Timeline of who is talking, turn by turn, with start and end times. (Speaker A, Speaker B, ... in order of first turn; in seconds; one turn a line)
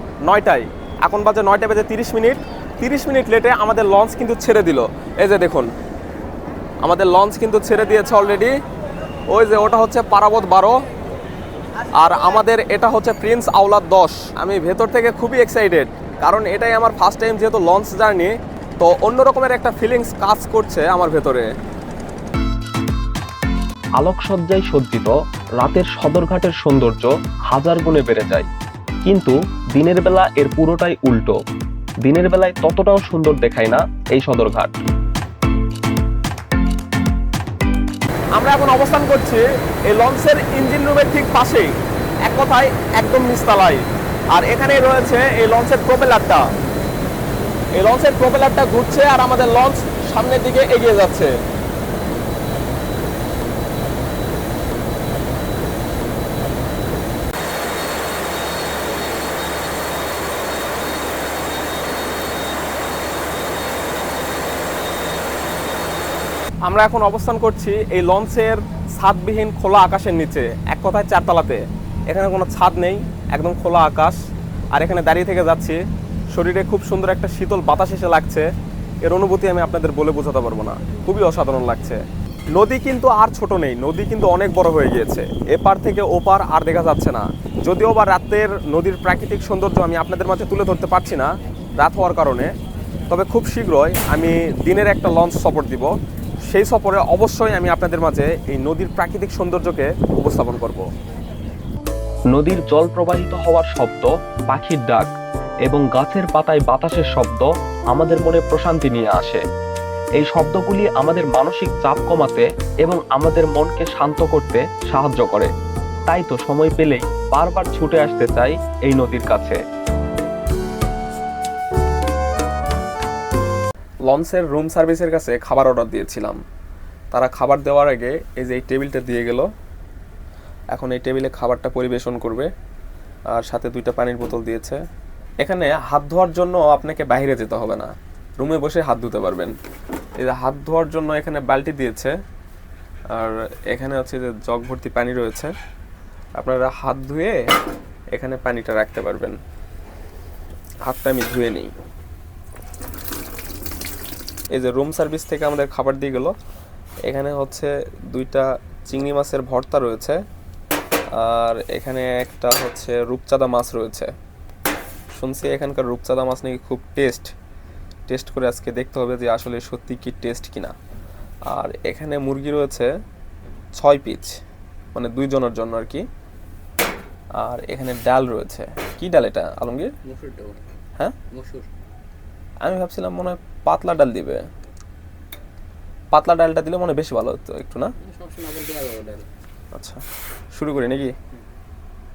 Speaker A: 0.3-5.7
Speaker A: 6.8-8.6
Speaker A: 9.3-10.8
Speaker A: 12.0-21.5
Speaker B: 24.0-28.5
Speaker B: 29.1-31.4
Speaker B: 32.0-34.7
Speaker A: 38.4-41.8
Speaker A: 42.3-46.5
Speaker A: 47.8-51.3
Speaker A: 66.7-74.2
Speaker A: 74.7-75.8
Speaker A: 76.3-78.5
Speaker A: 79.0-82.0
Speaker A: 82.5-92.5
Speaker A: 93.1-95.9
Speaker A: 96.5-100.9
Speaker B: 102.3-105.1
Speaker B: 105.7-109.4
Speaker B: 110.2-115.5
Speaker B: 116.1-119.6
Speaker A: 124.1-126.4
Speaker A: 127.1-129.5
Speaker A: 130.7-132.5
Speaker A: 133.3-134.8
Speaker A: 135.4-139.5
Speaker A: 140.2-142.2
Speaker A: 143.2-145.5
Speaker A: 146.4-147.4
Speaker A: 148.1-149.4
Speaker A: 150.9-151.7
Speaker A: 154.5-156.3
Speaker A: 157.1-160.2
Speaker A: 161.2-164.1
Speaker A: 165.2-167.3
Speaker A: 168.1-170.8
Speaker A: 171.5-172.9
Speaker A: 173.8-174.4
Speaker A: 174.9-176.1
Speaker A: 177.4-179.9
Speaker C: 180.1-180.6
Speaker C: 181.3-181.7
Speaker A: 182.6-184.4
Speaker A: 186.1-187.9
Speaker C: 188.0-189.3
Speaker A: 189.7-191.1